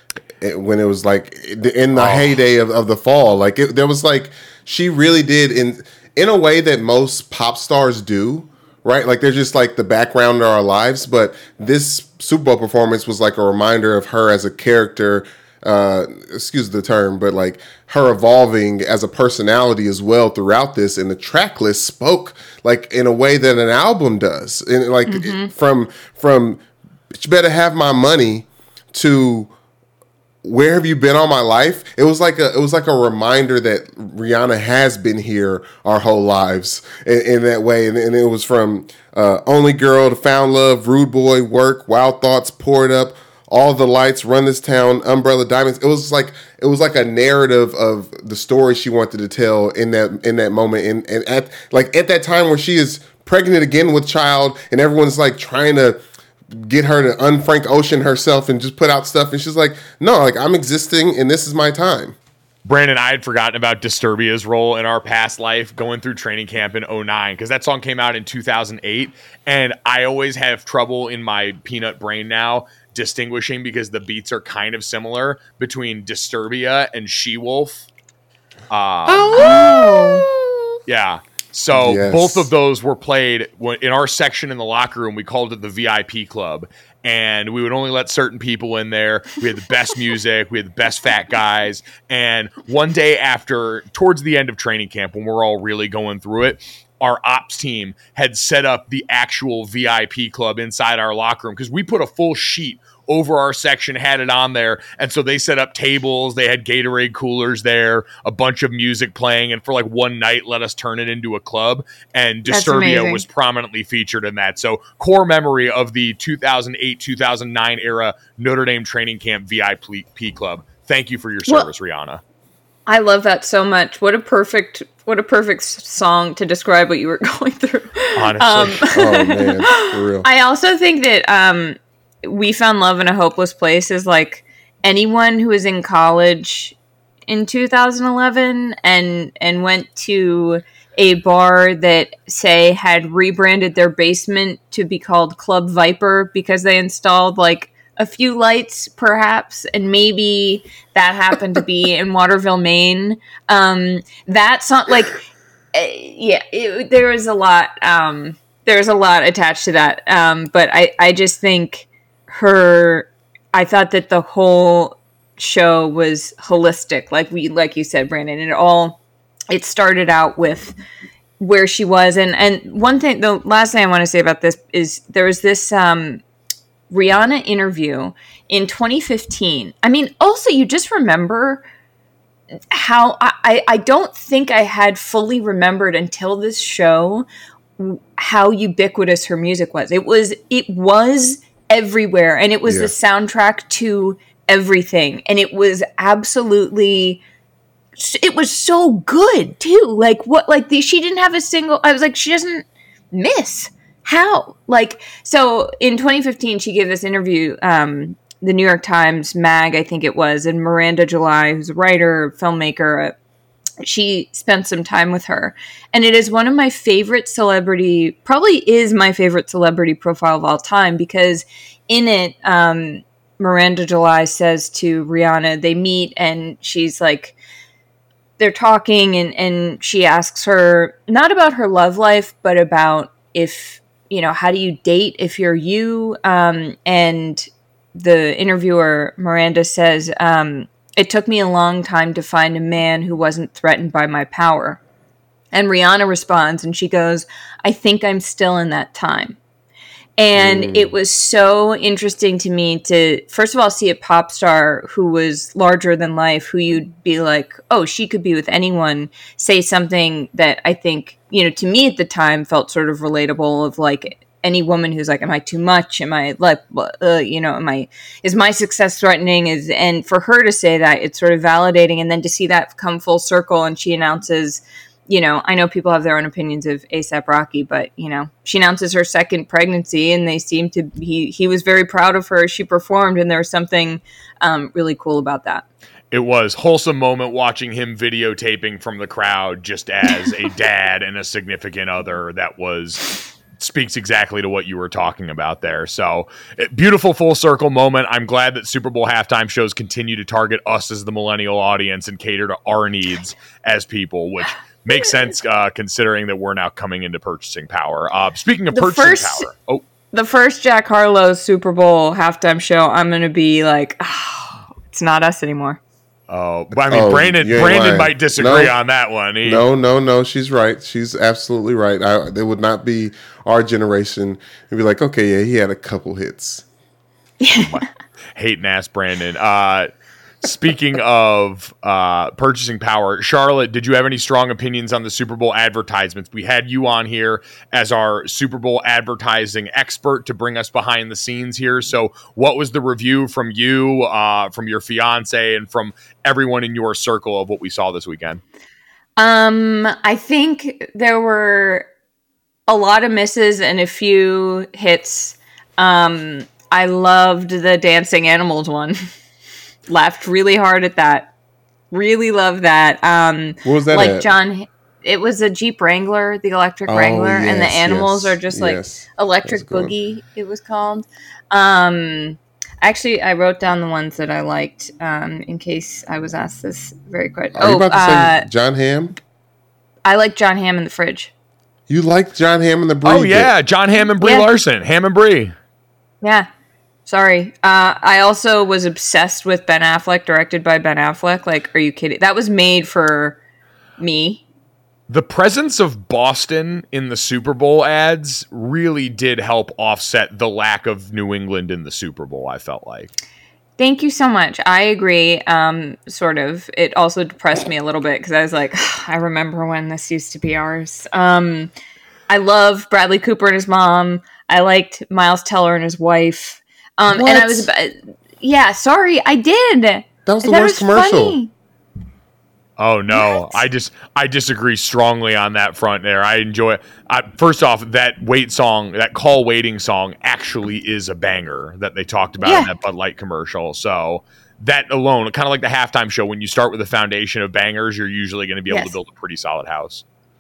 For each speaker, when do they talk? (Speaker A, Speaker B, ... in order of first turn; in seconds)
Speaker A: 0.4-26.6, 27.1-29.5, 30.4-56.0, 56.5-62.2, 79.1-80.5, 81.7-82.5, 128.9-130.3, 192.7-192.9, 250.3-250.9, 316.9-318.7, 319.4-326.6, 363.6-364.3, 366.9-369.9, 377.6-379.1, 381.9-383.5, 417.1-417.7, 420.3-421.4
Speaker B: 1.9-2.3, 62.6-77.9, 78.7-79.8, 80.9-122.2, 128.2-128.8, 286.1-293.1, 293.6-309.8, 316.3-319.7, 327.6-327.9, 328.4-329.9, 330.4-348.4, 383.1-385.5, 395.1-403.1, 422.8-440.0
Speaker C: 25.1-25.5, 79.3-80.3, 112.5-113.2, 122.9-136.8, 137.3-155.2, 155.7-169.0, 169.5-170.8, 171.4-176.2, 176.9-181.7, 182.7-187.3, 187.8-197.2, 198.0-213.2, 213.8-227.4, 228.4-244.8, 245.5-249.4, 250.2-285.6, 308.7-309.5, 310.1-315.8, 327.4-327.8, 349.2-351.9, 352.7-359.0, 359.9-361.3, 361.9-378.5, 380.1-381.3, 384.2-384.5, 386.2-386.5, 387.1-393.4, 394.0-394.4, 403.8-411.7, 412.3-421.5, 423.1-423.5, 432.4-432.7